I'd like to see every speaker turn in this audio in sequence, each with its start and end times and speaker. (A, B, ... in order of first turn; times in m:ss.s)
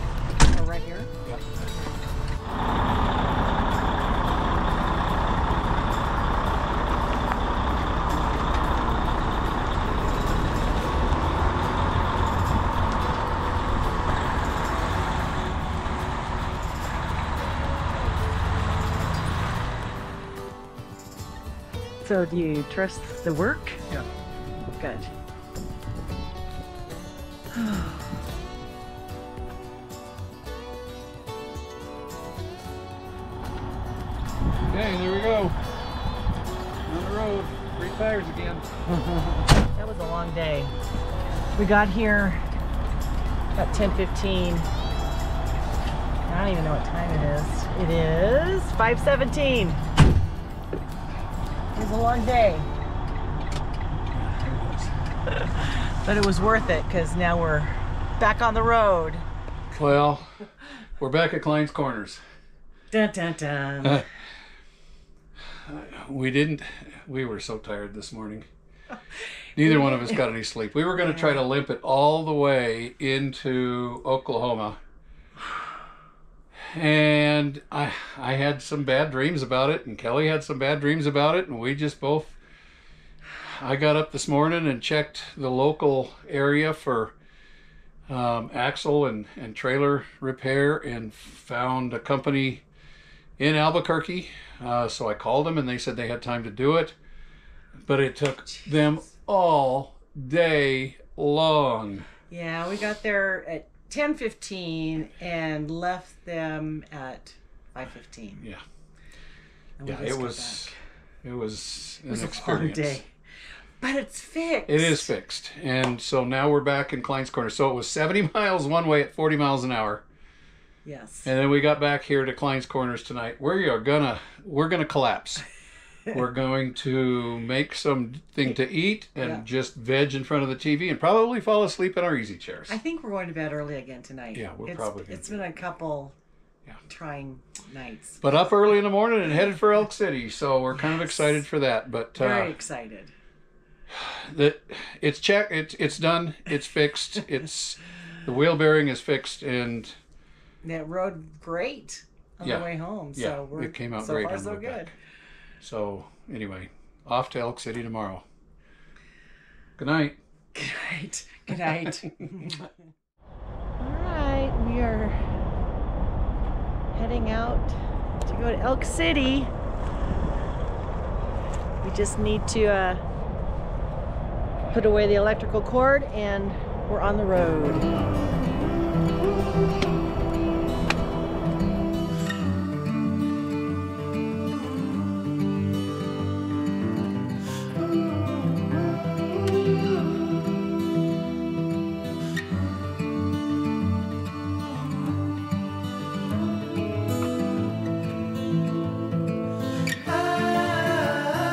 0:00.5-0:01.1 A
0:22.0-0:23.8 A
0:24.8-0:25.1 A
0:27.5-0:28.0 A
0:34.7-0:35.6 B
0:36.8-0:38.6 B
0:38.9-0:40.7 A
0:41.6-0:42.4 A
0:43.5-0:44.7 A
0:46.2-0:49.8 A
0:51.7-0:52.7 A
0:54.1-0:54.9 B
0:55.4-0:59.2 A
0:59.7-1:00.3 B
1:01.0-1:02.2 B
1:02.9-1:04.0 A
1:05.7-1:08.4 B
1:09.6-1:14.8 B
1:09.6-1:10.2 A
1:11.0-1:11.4 A
1:16.7-1:22.4 B
1:23.4-1:27.2 B
1:28.1-1:32.6 B
1:33.4-1:37.0 B
1:37.9-1:42.0 B
1:38.5-1:38.9 A
1:42.3-1:48.5 A
1:49.8-1:50.7 A
1:49.8-1:50.7 B
1:51.2-1:53.0 B
1:52.1-1:53.1 A
1:53.8-1:55.1 A
1:54.7-2:00.0 B
2:00.8-2:01.3 A
2:01.2-2:05.4 B
2:06.1-2:12.7 B
2:09.2-2:09.4 A
2:12.7-2:16.1 A
2:14.3-2:15.4 B
2:16.9-2:18.3 A
2:18.2-2:22.5 B
2:20.8-2:21.4 A
2:22.2-2:23.1 A
2:23.9-2:30.0 B
2:30.6-2:34.9 A
2:32.4-2:34.9 B
2:35.6-2:38.2 B
2:39.8-2:40.2 B
2:40.5-2:42.7 A
2:43.8-2:45.2 A
2:46.9-2:49.5 A
2:51.8-2:53.0 A
2:54.7-2:57.9 A